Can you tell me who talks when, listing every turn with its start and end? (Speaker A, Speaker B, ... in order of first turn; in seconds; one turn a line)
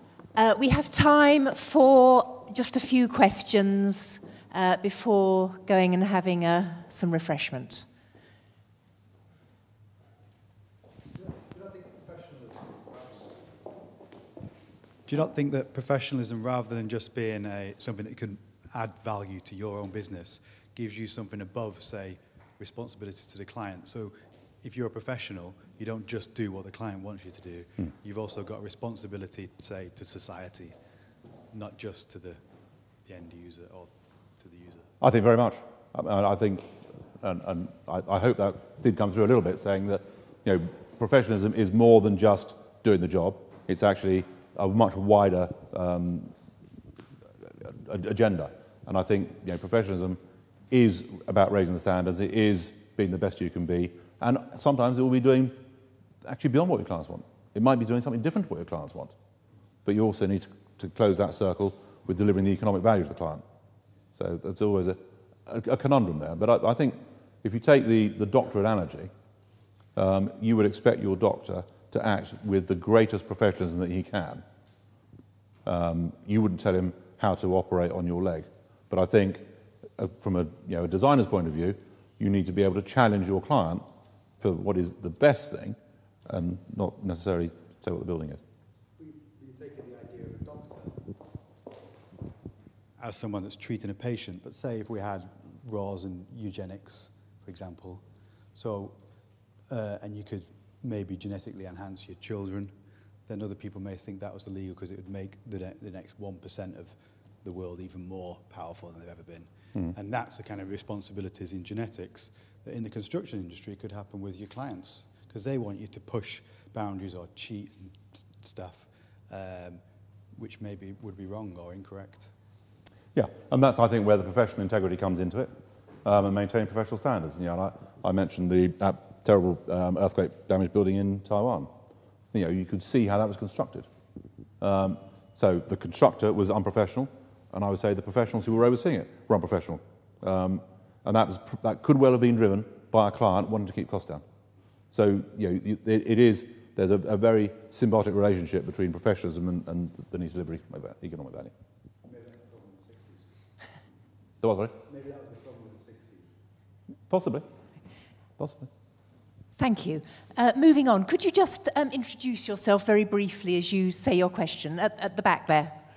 Speaker A: 0.4-7.9
Speaker B: 11.2-13.4
Speaker B: 15.1-30.8
Speaker B: 31.5-32.4
Speaker B: 33.0-34.9
Speaker C: 35.0-46.3
Speaker C: 47.6-55.6
Speaker C: 56.2-59.1
Speaker C: 59.9-63.4
Speaker C: 64.1-69.1
Speaker C: 70.0-74.4
Speaker C: 75.7-83.8
Speaker C: 84.4-88.4
Speaker B: 89.0-91.2
Speaker B: 93.0-98.0
Speaker B: 98.5-99.0
Speaker B: 99.7-102.7
Speaker B: 103.3-122.3
Speaker C: 123.1-125.5
Speaker C: 126.0-131.7
Speaker C: 132.3-133.9
Speaker C: 134.6-144.2
Speaker C: 144.9-151.5
Speaker B: 152.0-153.4
Speaker C: 154.4-154.8
Speaker B: 154.8-156.4
Speaker C: 157.1-157.5
Speaker C: 158.4-158.7
Speaker A: 159.6-165.8